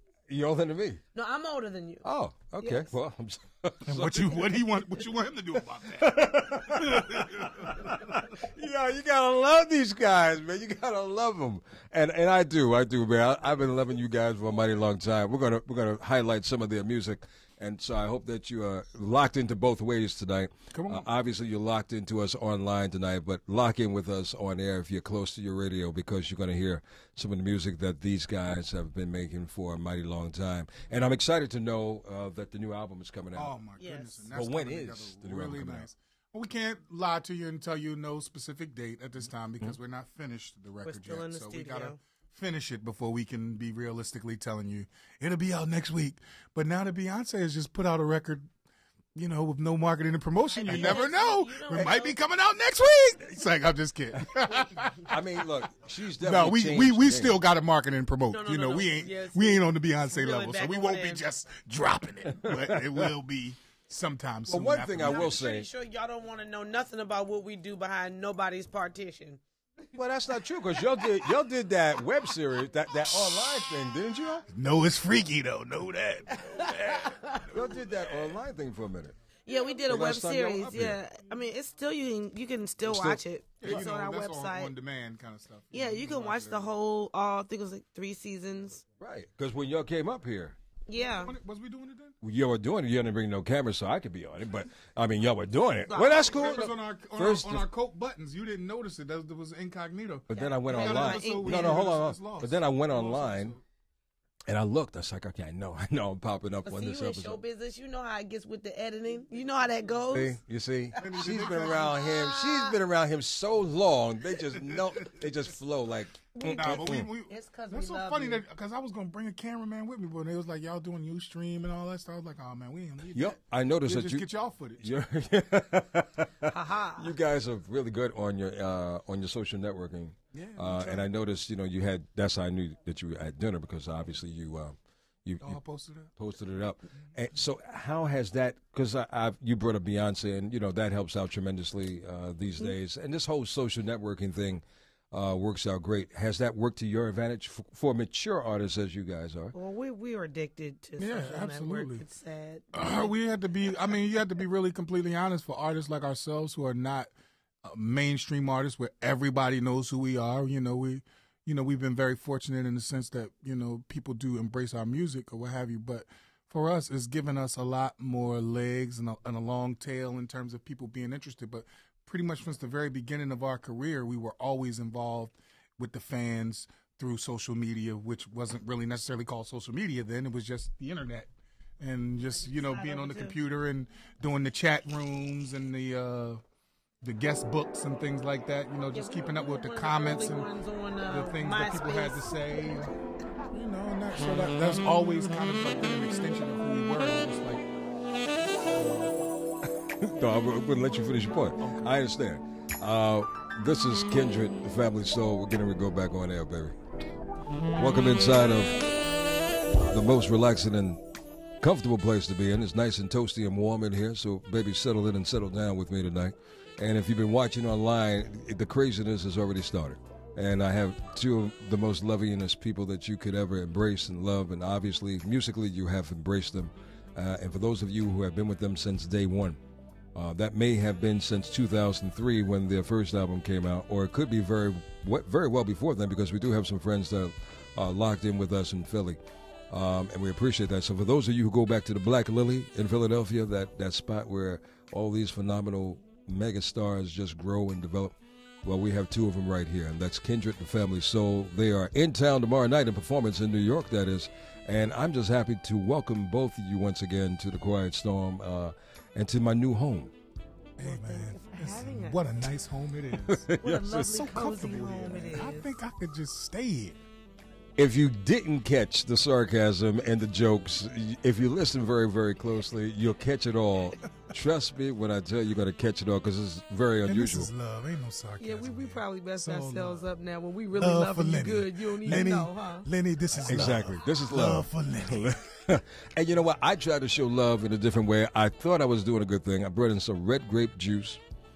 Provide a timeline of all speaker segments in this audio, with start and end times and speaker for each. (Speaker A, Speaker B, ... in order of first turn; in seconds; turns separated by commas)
Speaker A: 0.3-1.0, Speaker B: 1.1-2.1, Speaker A: 2.0-4.7, Speaker B: 2.6-2.9, Speaker C: 3.9-8.4, Speaker A: 5.9-33.5, Speaker C: 20.7-21.1, Speaker C: 33.4-48.5, Speaker B: 33.8-34.3, Speaker A: 34.3-35.9, Speaker B: 40.8-42.0, Speaker C: 49.1-55.1, Speaker B: 50.5-52.2, Speaker A: 50.7-51.0, Speaker A: 51.7-52.0, Speaker A: 55.0-57.4, Speaker C: 56.2-65.4, Speaker B: 58.3-61.2, Speaker A: 62.4-63.1, Speaker A: 64.5-65.7, Speaker B: 65.0-69.4, Speaker A: 70.0-74.4, Speaker C: 74.5-78.0, Speaker B: 76.4-77.7, Speaker A: 77.5-79.2, Speaker B: 79.5-84.7, Speaker A: 79.9-81.0, Speaker A: 82.9-83.2, Speaker C: 83.6-86.7, Speaker B: 85.7-88.8, Speaker A: 89.0-90.6, Speaker B: 90.9-91.3, Speaker C: 91.1-92.2, Speaker A: 92.2-97.6, Speaker B: 95.9-96.6, Speaker C: 96.3-103.6, Speaker A: 100.3-103.5, Speaker B: 100.3-101.8, Speaker A: 104.5-107.4, Speaker B: 106.7-110.4, Speaker A: 110.1-117.1, Speaker C: 111.0-112.0, Speaker B: 111.1-112.8, Speaker B: 116.3-118.4, Speaker C: 116.5-125.0, Speaker A: 123.1-124.3, Speaker A: 124.8-135.6, Speaker B: 126.5-127.1, Speaker C: 130.3-131.1, Speaker C: 135.4-136.1, Speaker A: 136.2-149.5, Speaker B: 149.5-153.1, Speaker C: 151.0-152.0, Speaker C: 152.7-157.1, Speaker C: 157.6-186.4, Speaker B: 182.3-183.4, Speaker C: 187.0-190.5, Speaker B: 188.9-192.4, Speaker C: 191.1-192.9, Speaker C: 193.5-197.7, Speaker C: 198.6-199.1, Speaker A: 200.0-206.8, Speaker C: 201.6-201.9, Speaker A: 207.8-208.7, Speaker A: 209.9-211.0, Speaker A: 211.6-229.6, Speaker A: 230.2-239.2, Speaker A: 239.7-248.1, Speaker A: 248.6-260.1, Speaker C: 260.8-267.0, Speaker B: 260.8-262.2, Speaker A: 263.3-264.1, Speaker B: 263.6-265.7, Speaker A: 267.8-277.5, Speaker C: 277.1-280.0, Speaker B: 278.4-282.9, Speaker C: 280.8-285.4, Speaker A: 283.4-291.2